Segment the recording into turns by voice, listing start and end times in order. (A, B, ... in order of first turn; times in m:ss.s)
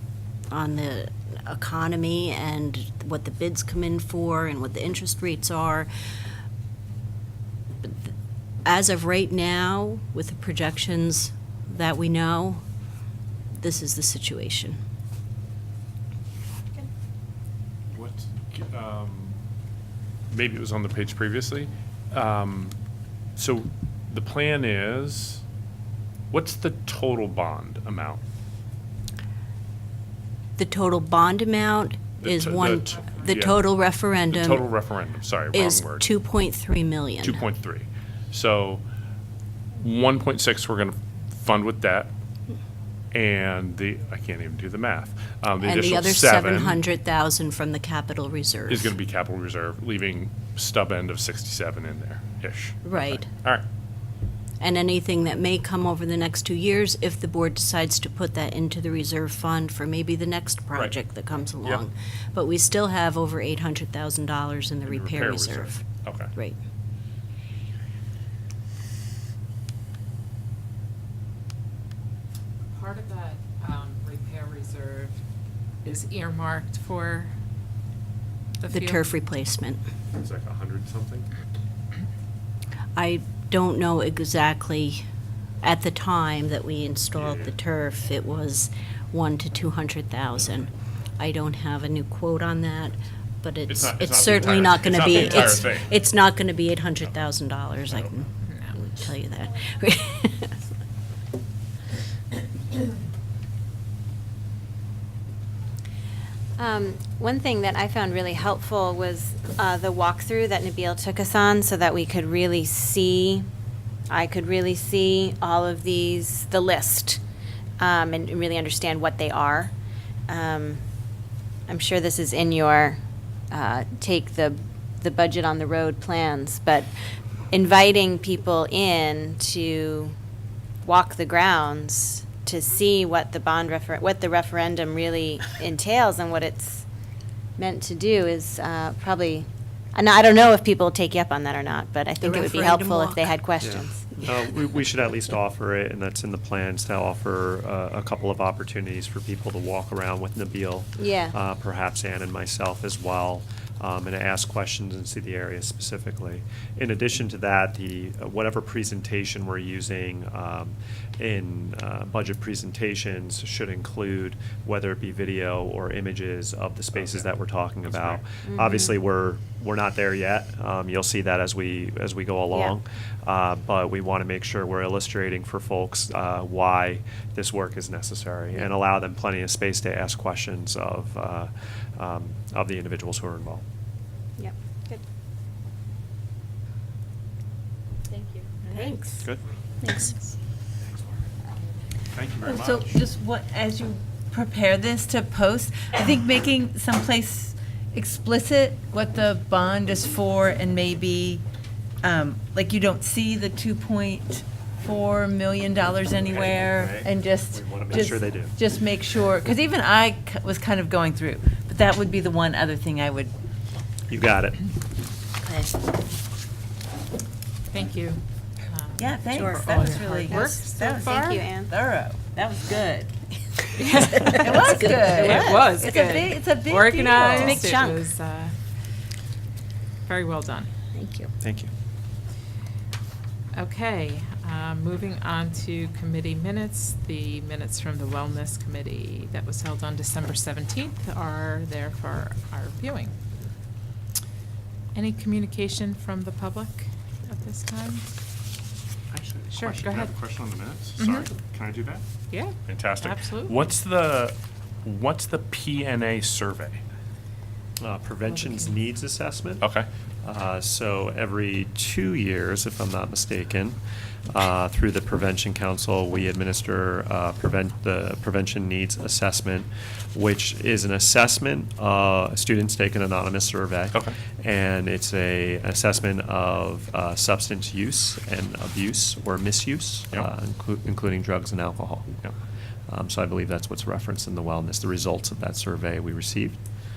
0:00.5-0:05.9 A
0:07.8-0:08.1 A
0:08.6-0:12.6 A
0:13.5-0:14.8 A
0:17.9-0:19.4 B
0:20.3-0:22.8 B
0:23.4-0:25.4 B
0:26.3-0:28.2 B
0:30.6-0:34.7 A
0:32.2-0:36.1 B
0:32.8-0:33.5 C
0:35.5-0:37.4 A
0:37.2-0:38.8 B
0:39.8-0:42.1 B
0:43.1-0:46.8 B
0:45.6-0:48.9 A
0:48.7-0:53.6 B
0:52.8-0:53.3 A
0:54.6-1:05.8 A
1:00.7-1:01.0 B
1:04.8-1:06.3 B
1:12.7-1:15.2 C
1:15.8-1:17.3 C
1:18.6-1:19.1 C
1:18.7-1:19.8 A
1:20.1-1:21.3 B
1:23.0-1:25.0 A
1:25.6-1:40.6 A
1:27.1-1:27.5 B
1:33.7-1:35.9 B
1:34.9-1:35.7 C
1:38.4-1:38.8 C
1:46.6-1:53.4 D
1:54.1-1:57.2 D
1:57.8-1:59.7 D
2:00.3-2:00.8 D
2:01.7-2:03.0 D
2:03.5-2:06.9 D
2:07.5-2:10.1 D
2:10.8-2:16.8 D
2:17.6-2:24.1 D
2:22.2-2:23.3 A
2:23.6-3:03.6 E
2:31.0-2:31.3 D
2:46.9-2:47.3 B
2:47.9-2:48.2 B
2:48.4-2:48.9 D
3:04.4-3:05.0 D
3:08.7-3:09.2 D
3:09.8-3:10.1 D
3:12.1-3:13.0 B
3:12.4-3:21.4 F
3:22.0-3:33.3 F
3:26.2-3:28.6 E
3:34.1-3:34.6 E
3:37.7-3:41.4 C
3:39.0-3:43.1 F
3:39.4-3:41.7 D
3:43.8-3:48.5 C
3:44.2-3:47.5 F
3:45.1-3:45.7 D
3:47.4-3:48.0 D
3:50.1-3:50.7 C
3:51.0-3:51.3 D
3:51.4-3:51.7 E
3:53.5-4:03.1 C
4:04.9-4:08.0 C
4:09.1-4:16.8 B
4:09.5-4:10.2 C
4:11.0-4:11.3 C
4:12.3-4:13.6 C
4:17.8-4:19.7 E
4:18.3-4:18.8 C
4:19.6-4:19.8 B
4:20.2-4:23.8 E
4:24.3-4:42.1 E
4:42.9-4:46.6 E